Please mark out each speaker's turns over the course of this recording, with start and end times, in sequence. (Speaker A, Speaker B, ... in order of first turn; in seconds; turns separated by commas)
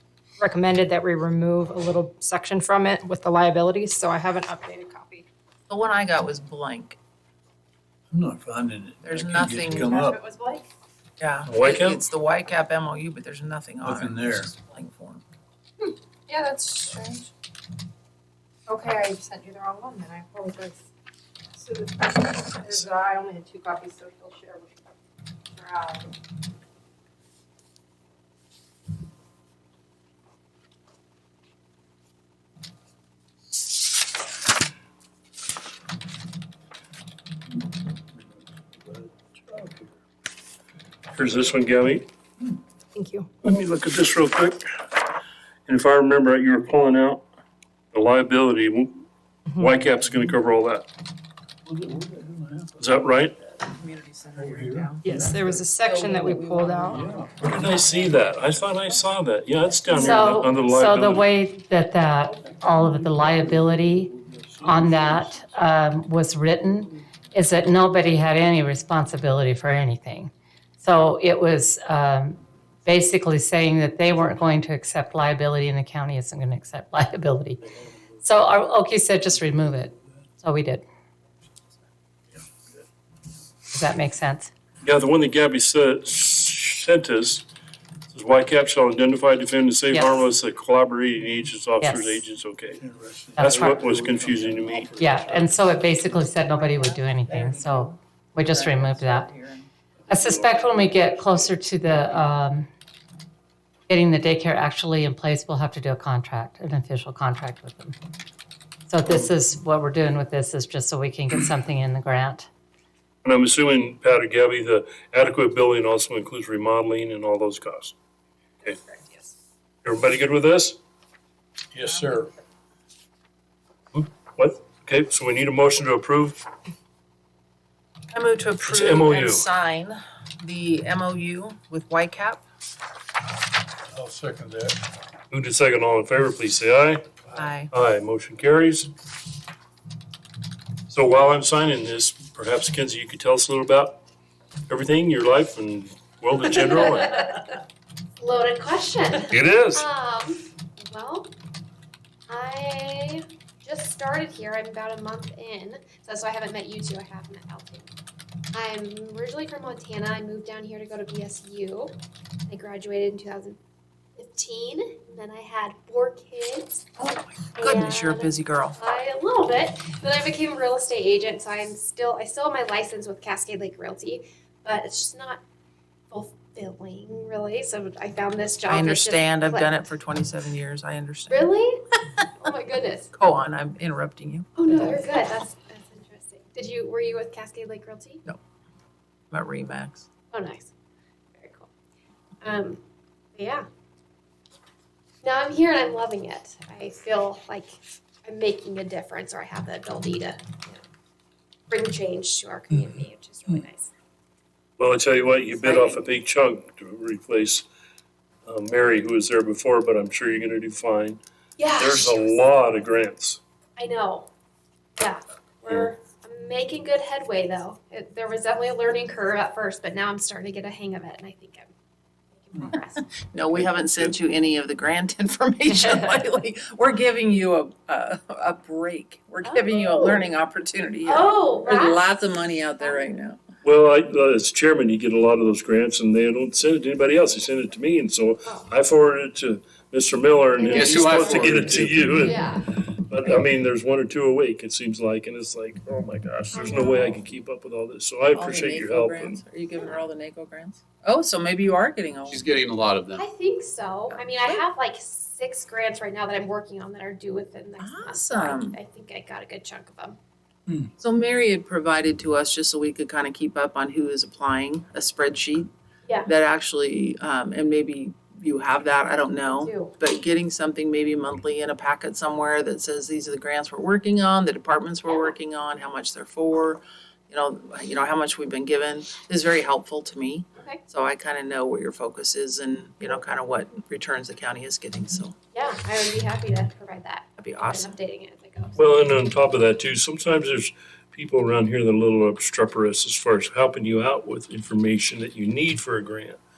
Speaker A: 0.4-5.2, Speaker B: 5.7-7.0, Speaker C: 8.1-10.2, Speaker B: 9.0-10.0, Speaker A: 9.7-10.7, Speaker B: 11.2-15.2, Speaker D: 11.4-12.0, Speaker C: 13.8-14.5, Speaker A: 15.8-17.3, Speaker A: 18.7-20.8, Speaker A: 21.6-24.8, Speaker A: 25.5-26.1, Speaker C: 38.9-39.8, Speaker D: 41.1-42.1, Speaker A: 42.9-43.3, Speaker D: 43.4-44.6, Speaker D: 45.7-47.2, Speaker D: 47.9-49.0, Speaker D: 49.5-50.9, Speaker C: 51.6-52.7, Speaker D: 52.8-53.4, Speaker B: 53.6-58.0, Speaker C: 54.3-54.9, Speaker A: 55.0-57.0, Speaker C: 56.9-58.0, Speaker D: 57.4-61.3, Speaker E: 59.9-77.6, Speaker C: 62.6-65.3, Speaker E: 78.2-80.8, Speaker E: 83.7-84.5, Speaker D: 84.8-87.5, Speaker D: 88.1-92.8, Speaker E: 89.9-90.2, Speaker E: 91.8-92.2, Speaker C: 92.8-95.7, Speaker E: 93.3-93.8, Speaker D: 93.3-95.2, Speaker E: 95.0-99.3, Speaker B: 96.0-99.7, Speaker E: 100.1-102.7, Speaker D: 100.1-100.9, Speaker E: 103.9-108.0, Speaker E: 108.9-112.5, Speaker D: 113.2-117.9, Speaker D: 119.8-120.8, Speaker C: 121.7-122.3, Speaker D: 123.9-126.4, Speaker B: 128.1-132.4, Speaker D: 128.6-129.5, Speaker C: 133.9-134.8, Speaker D: 135.3-137.1, Speaker B: 137.3-137.7, Speaker D: 137.7-138.9, Speaker D: 140.9-144.0, Speaker D: 144.7-147.4, Speaker F: 148.2-151.3, Speaker D: 149.3-149.9, Speaker F: 152.3-157.9, Speaker F: 158.5-163.6, Speaker F: 164.2-167.0, Speaker B: 167.0-168.8, Speaker F: 167.5-175.4, Speaker F: 176.1-179.9, Speaker B: 178.7-181.5, Speaker F: 181.3-183.1, Speaker B: 183.1-184.9, Speaker F: 184.6-188.2, Speaker B: 189.3-190.1, Speaker F: 190.3-190.7, Speaker F: 191.3-191.7, Speaker F: 192.4-192.8, Speaker F: 193.3-193.6, Speaker F: 195.2-200.8, Speaker F: 201.7-203.9, Speaker D: 204.8-207.6, Speaker F: 205.5-206.0, Speaker D: 208.4-211.2, Speaker F: 211.6-212.2, Speaker D: 211.8-213.4, Speaker F: 213.8-214.3, Speaker F: 215.0-221.7, Speaker F: 222.3-223.0, Speaker B: 222.7-233.4, Speaker D: 223.5-224.1, Speaker F: 229.4-230.2, Speaker F: 231.0-233.2, Speaker D: 233.6-249.4, Speaker F: 238.4-238.7, Speaker F: 240.6-242.8, Speaker G: 240.8-241.9, Speaker F: 246.5-247.2, Speaker B: 248.3-252.6, Speaker F: 249.8-250.0, Speaker G: 252.3-253.2, Speaker F: 253.1-260.1, Speaker B: 254.1-254.6, Speaker B: 257.8-258.8, Speaker B: 261.0-265.7, Speaker B: 266.2-285.4, Speaker F: 269.4-270.0, Speaker F: 280.6-280.8, Speaker F: 285.5-288.8, Speaker B: 287.4-287.9, Speaker D: 288.8-296.4